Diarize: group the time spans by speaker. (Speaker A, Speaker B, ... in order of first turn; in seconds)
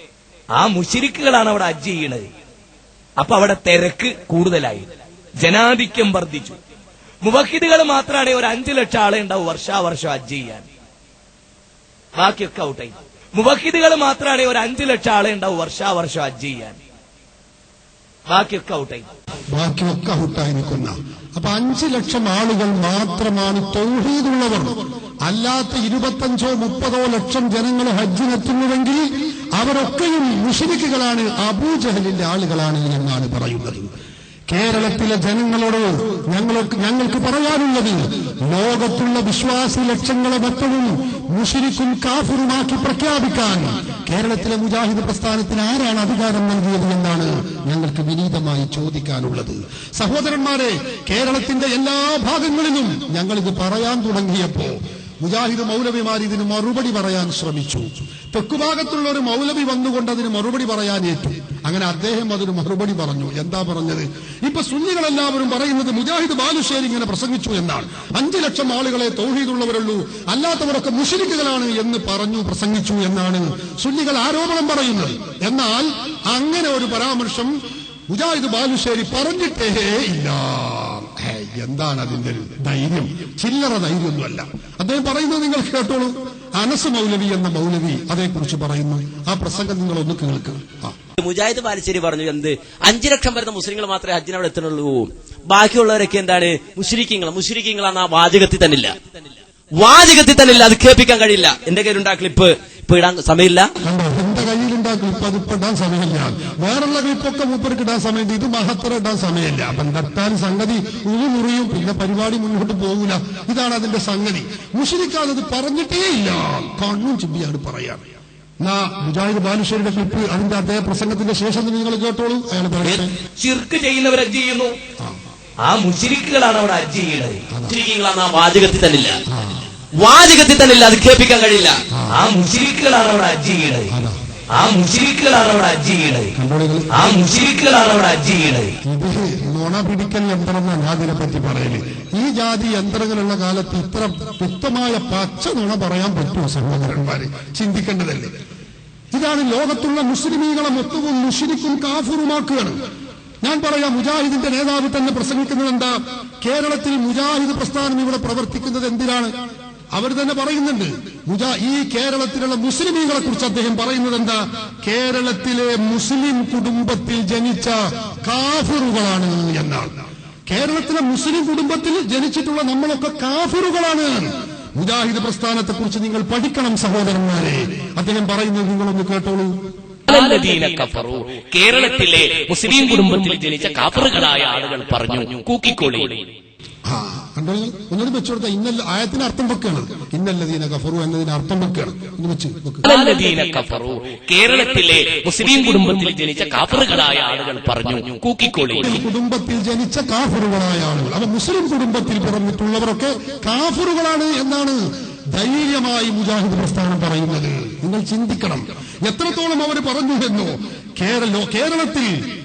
Speaker A: 0.5-2.3, 3.2-6.6, 7.2-10.6, 12.2-16.8, 18.3-19.1, 123.4-124.7, 125.6-127.4, 132.1-133.9, 134.6-136.3, 136.9-138.8
Speaker B: 19.5-33.9, 34.5-77.5, 78.1-90.9, 103.8-118.1, 118.6-123.1, 127.5-127.8, 129.3-129.6, 133.9-134.2, 136.3-137.5, 138.8-148.3, 149.1-152.8, 153.4-159.3, 159.9-169.9, 170.5-179.5, 186.9-192.8, 198.8-204.8, 205.3-212.2
Speaker C: 91.2-99.2, 99.8-103.7, 127.7-129.2, 130.0-131.8
Speaker D: 180.1-186.3, 192.8-199.0